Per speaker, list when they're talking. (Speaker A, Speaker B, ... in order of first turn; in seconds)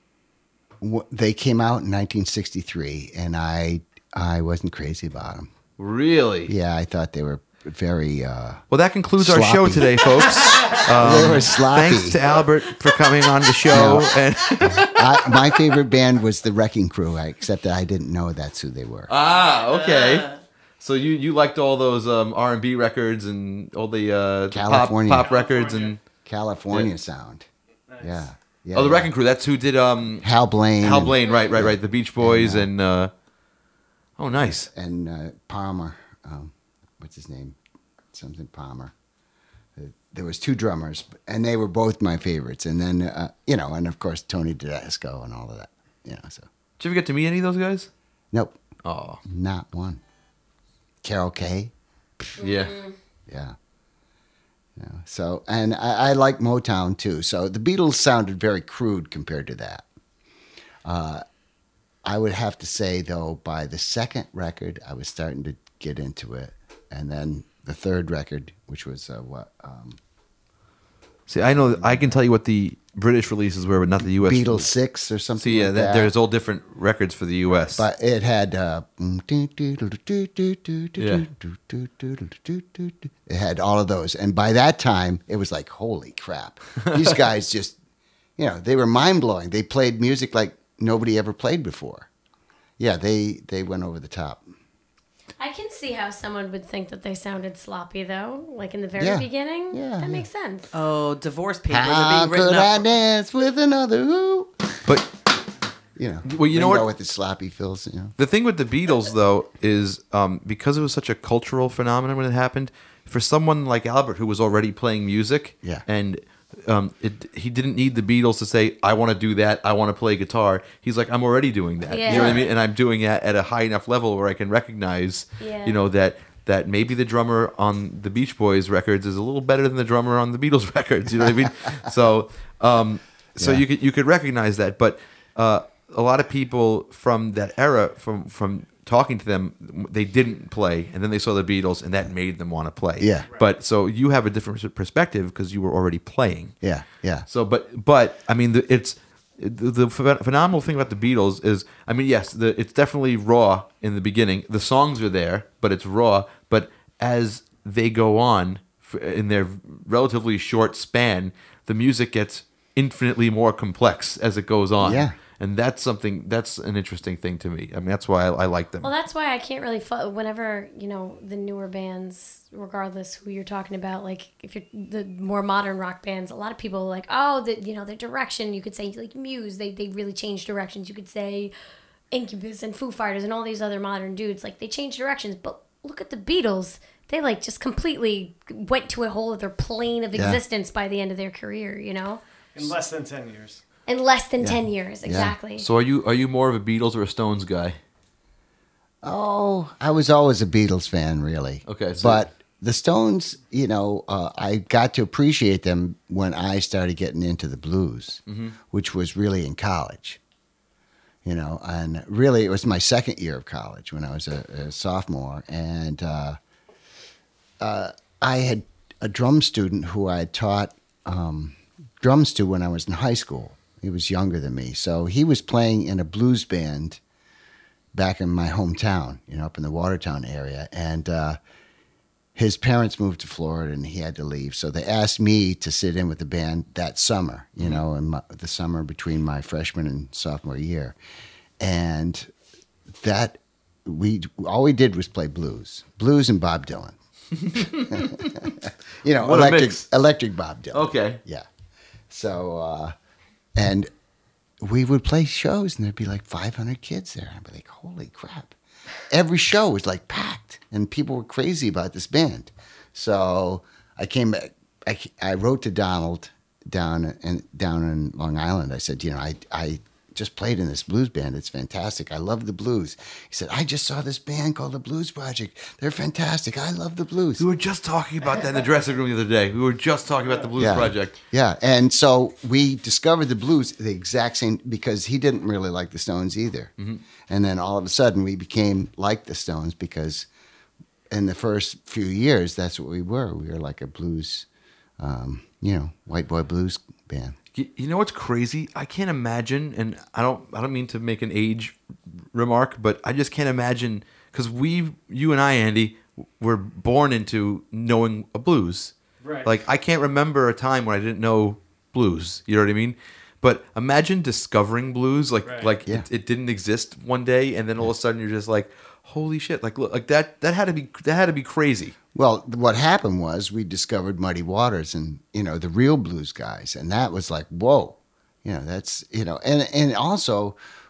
Speaker A: 0.8-5.5, 6.5-8.6, 9.2-12.2, 13.7-14.1, 14.8-19.1, 24.5-25.3, 26.2-27.5, 28.0-29.1, 30.2-32.7, 34.7-37.6, 38.1-38.9, 39.8-46.5, 48.3-48.6, 49.2-50.0, 51.0-52.4, 53.3-53.5, 54.8-59.9, 60.9-61.2, 62.0-70.0, 74.2-76.1, 77.8-87.8, 88.4-92.1, 92.8-94.5, 99.0-100.2, 101.7-104.5, 106.0-108.1, 133.4-133.6, 143.0-143.3, 146.6-147.3, 164.8-165.2, 190.1-190.4, 194.4-195.3, 199.0-210.2, 211.2-216.4, 217.6-227.0, 227.9-231.4, 232.4-241.0, 241.6-242.3, 242.9-247.0, 247.6-251.5, 252.1-252.9, 253.6-253.9, 254.6-258.6, 259.1-277.4, 280.6-286.7, 287.3-290.3, 291.1-294.5, 295.0-297.4, 322.1-330.6
Speaker B: 5.8-6.5, 8.7-15.5, 19.1-26.0, 28.8-30.3, 30.8-33.1, 34.2-34.7, 46.8-47.9, 48.8-49.2, 52.4-52.8, 71.3-74.7, 75.4-77.9, 81.0-81.2, 106.2-106.9, 108.2-146.6, 147.3-168.9, 195.6-197.8, 201.7-202.2, 208.3-208.6, 247.4-248.5, 249.2-249.8, 250.7-251.2, 277.4-281.2, 286.8-287.0, 297.6-301.8, 302.3-321.9
Speaker C: 19.6-20.3, 100.7-102.8
Speaker D: 25.1-26.0, 27.9-28.3, 192.6-193.6, 309.2-309.6, 315.4-315.7
Speaker E: 52.4-52.9, 95.4-100.7, 121.9-122.5, 125.4-125.8, 168.8-181.5, 182.1-192.2, 193.9-195.7